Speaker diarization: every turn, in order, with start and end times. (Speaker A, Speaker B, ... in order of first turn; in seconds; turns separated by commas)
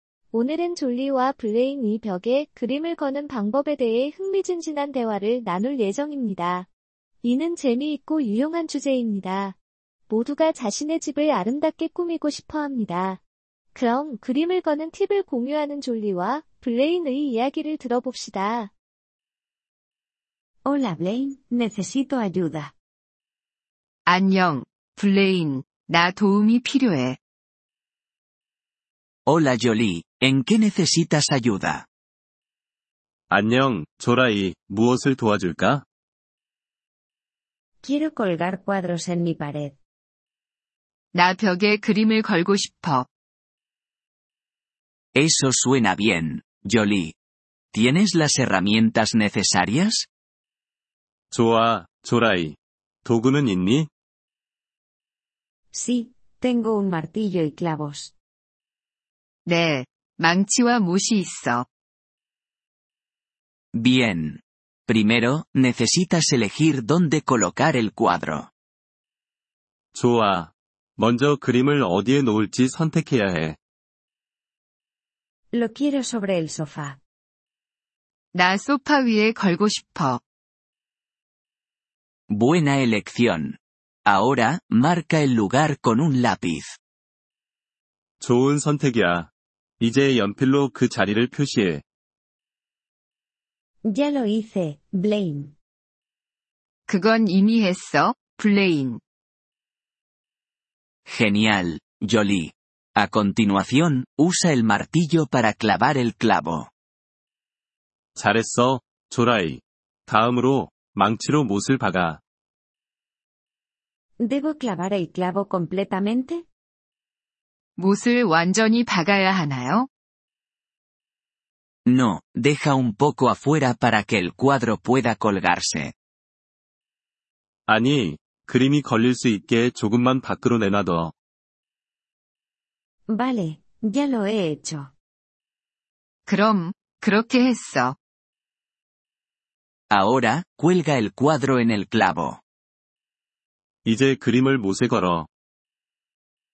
Speaker A: 0.3-6.7, Speaker A: 7.2-9.6, Speaker A: 10.1-13.2, Speaker A: 13.7-18.7, Speaker B: 20.7-22.7, Speaker C: 24.1-27.2, Speaker D: 29.3-31.9, Speaker E: 33.3-35.8, Speaker B: 37.8-39.8, Speaker C: 41.1-43.1, Speaker D: 45.1-47.2, Speaker D: 47.7-50.1, Speaker E: 51.3-53.9, Speaker B: 55.7-58.1, Speaker C: 59.5-61.7, Speaker D: 63.7-68.5, Speaker E: 69.9-73.6, Speaker B: 75.5-77.0, Speaker C: 78.3-80.2, Speaker D: 82.3-86.8, Speaker E: 88.2-89.3, Speaker E: 89.8-91.8, Speaker B: 93.8-95.5, Speaker C: 96.9-99.0, Speaker D: 101.1-106.7, Speaker E: 108.2-112.2, Speaker B: 114.2-116.5, Speaker C: 117.8-119.9, Speaker D: 121.9-125.9, Speaker E: 127.7-131.1, Speaker B: 133.1-134.9, Speaker C: 136.3-138.0, Speaker D: 139.9-142.4, Speaker E: 143.8-145.3